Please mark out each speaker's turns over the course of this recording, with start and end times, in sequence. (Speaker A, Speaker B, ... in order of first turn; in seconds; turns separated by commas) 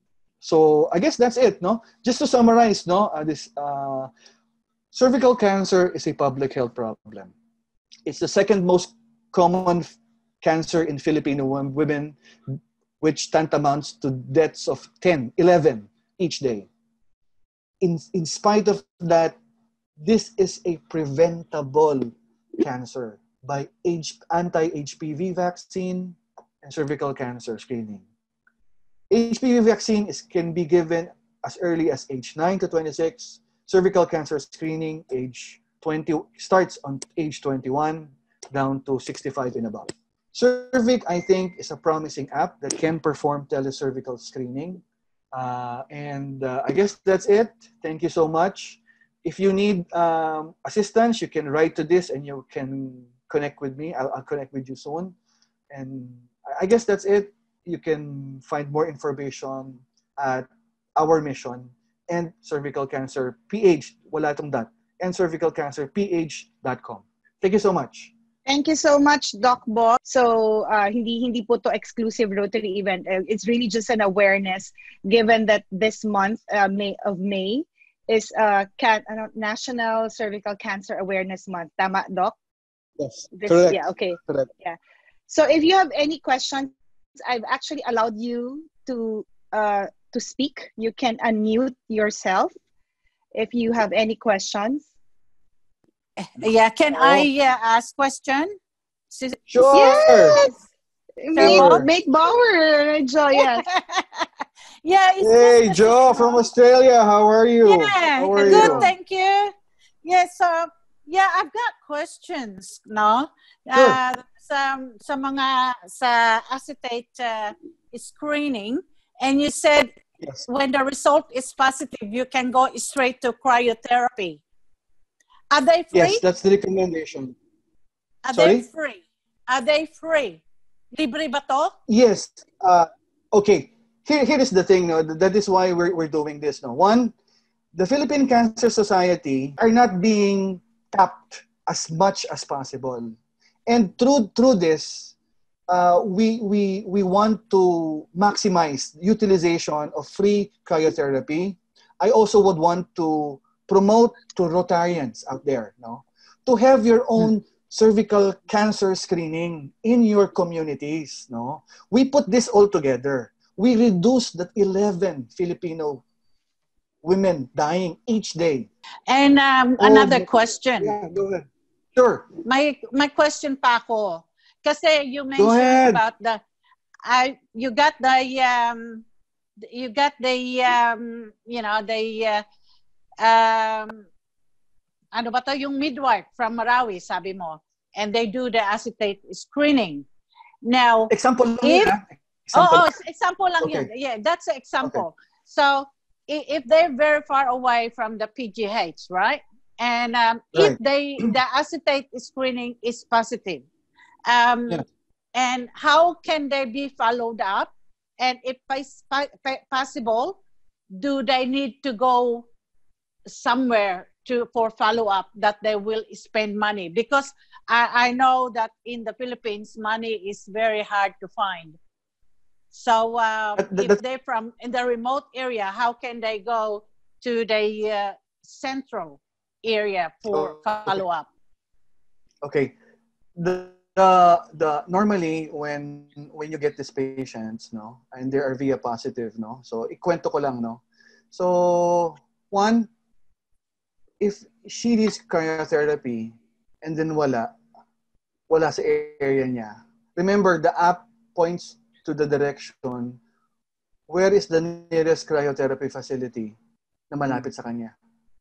Speaker A: 0.4-4.1, Speaker A: 4.9-7.3, Speaker A: 8.1-16.7, Speaker A: 17.8-19.4, Speaker A: 20.0-28.1, Speaker A: 29.1-55.1, Speaker A: 55.7-68.1, Speaker B: 68.5-82.4, Speaker A: 83.0-84.5, Speaker B: 83.3-84.8, Speaker B: 85.3-92.5, Speaker B: 93.3-94.9, Speaker C: 96.2-98.5, Speaker A: 96.9-97.3, Speaker C: 99.1-100.5, Speaker A: 99.5-100.4, Speaker B: 99.7-100.5, Speaker B: 101.2-103.7, Speaker C: 101.4-101.9, Speaker A: 101.4-101.9, Speaker C: 103.4-104.3, Speaker C: 104.8-106.4, Speaker A: 105.2-108.9, Speaker C: 107.6-109.5, Speaker C: 110.0-120.0, Speaker A: 113.7-114.0, Speaker C: 120.5-124.4, Speaker C: 125.5-126.2, Speaker A: 125.9-127.3, Speaker C: 128.2-130.4, Speaker A: 128.3-128.7, Speaker C: 130.9-131.7, Speaker A: 131.9-137.2, Speaker A: 137.7-143.2, Speaker A: 143.7-145.1, Speaker A: 145.7-166.0, Speaker A: 167.0-168.7, Speaker C: 169.1-171.0, Speaker A: 169.8-172.3, Speaker C: 172.4-176.4, Speaker A: 175.4-176.0, Speaker C: 177.1-179.0, Speaker C: 179.7-182.4, Speaker C: 183.2-184.1, Speaker C: 185.1-190.1, Speaker C: 190.6-191.9, Speaker A: 191.1-192.9, Speaker C: 192.5-203.7, Speaker A: 193.6-193.9, Speaker A: 200.6-201.3, Speaker C: 204.3-210.4, Speaker C: 210.9-212.4, Speaker C: 213.3-221.8, Speaker C: 222.7-231.3, Speaker A: 223.6-224.0, Speaker A: 230.3-231.0, Speaker A: 232.4-232.8, Speaker A: 233.4-240.8, Speaker A: 241.3-242.9, Speaker A: 244.2-247.5, Speaker A: 248.5-253.2, Speaker A: 254.1-256.6, Speaker A: 257.1-257.9